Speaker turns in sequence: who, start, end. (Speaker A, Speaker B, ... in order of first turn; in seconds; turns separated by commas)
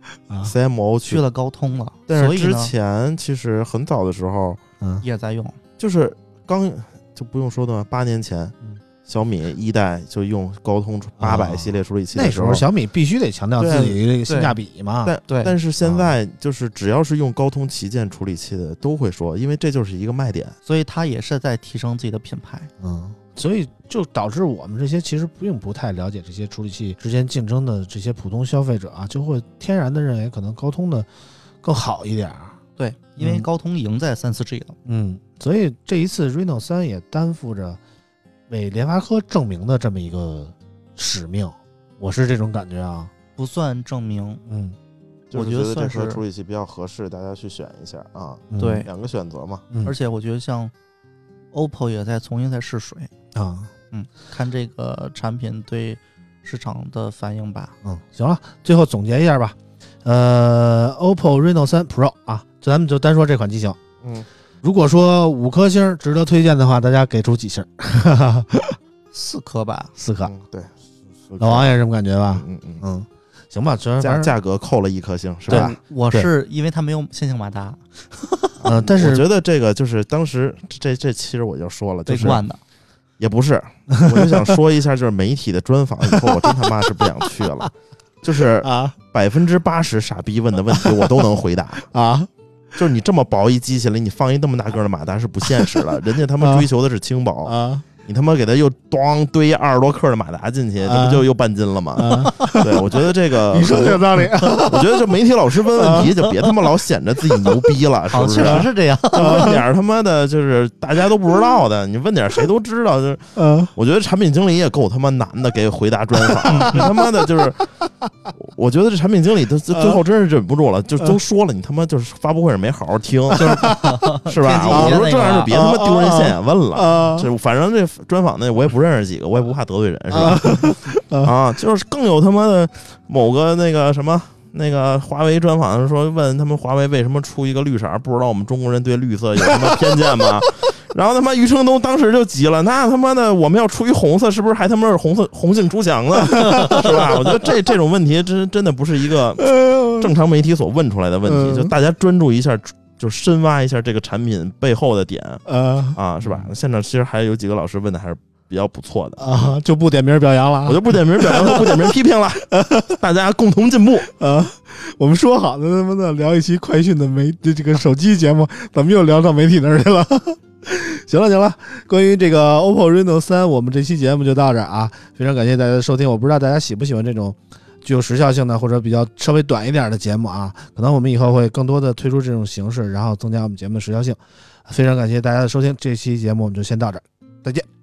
Speaker A: 0.4-1.2, Speaker B: 1.1-2.7, Speaker A: 2.1-4.6, Speaker B: 5.0-5.6, Speaker A: 5.8-8.5, Speaker A: 9.1-12.7, Speaker C: 11.2-15.1, Speaker A: 13.6-14.0, Speaker B: 14.3-14.6, Speaker A: 15.1-20.6, Speaker B: 15.3-15.6, Speaker C: 15.8-16.1, Speaker B: 20.7-22.7, Speaker C: 22.8-31.1, Speaker C: 31.6-32.6, Speaker B: 32.8-34.8, Speaker C: 33.2-33.5, Speaker C: 34.9-37.8, Speaker C: 38.5-43.1, Speaker B: 43.4-44.4, Speaker C: 44.5-44.8, Speaker A: 45.3-49.6, Speaker B: 45.3-46.2, Speaker C: 48.5-48.9, Speaker B: 48.6-48.9, Speaker B: 49.8-50.7, Speaker B: 51.5-53.1, Speaker C: 53.3-53.7, Speaker B: 53.9-57.8, Speaker C: 57.8-63.8, Speaker C: 64.6-68.8, Speaker B: 69.1-69.9, Speaker C: 70.0-70.3, Speaker A: 70.2-70.7, Speaker A: 71.2-71.7, Speaker C: 71.4-74.3, Speaker A: 72.3-72.8, Speaker A: 74.0-75.8, Speaker C: 75.5-76.3, Speaker B: 75.5-78.6, Speaker A: 78.6-82.4, Speaker C: 78.7-79.3, Speaker B: 82.1-82.6, Speaker A: 83.2-87.7, Speaker C: 83.9-84.5, Speaker C: 86.1-86.6, Speaker C: 87.3-87.7, Speaker A: 88.2-91.9, Speaker C: 88.6-89.0, Speaker C: 90.8-91.2, Speaker C: 91.8-92.3, Speaker A: 92.8-117.8, Speaker C: 95.5-95.8, Speaker C: 96.4-96.7, Speaker C: 97.5-97.8, Speaker C: 100.8-101.2, Speaker C: 101.9-106.2, Speaker B: 108.1-109.5, Speaker C: 109.2-109.6, Speaker C: 113.4-113.7, Speaker C: 116.3-117.3, Speaker B: 116.5-116.8, Speaker A: 118.3-155.4, Speaker C: 119.7-120.0, Speaker C: 123.3-124.0, Speaker B: 123.4-125.5, Speaker C: 124.7-127.3, Speaker C: 130.1-131.3, Speaker C: 139.5-140.3, Speaker C: 146.4-147.0, Speaker C: 149.4-150.1, Speaker C: 151.3-151.7, Speaker C: 155.5-156.5, Speaker A: 155.9-159.6, Speaker C: 159.2-163.0, Speaker A: 160.7-164.1, Speaker C: 164.0-187.7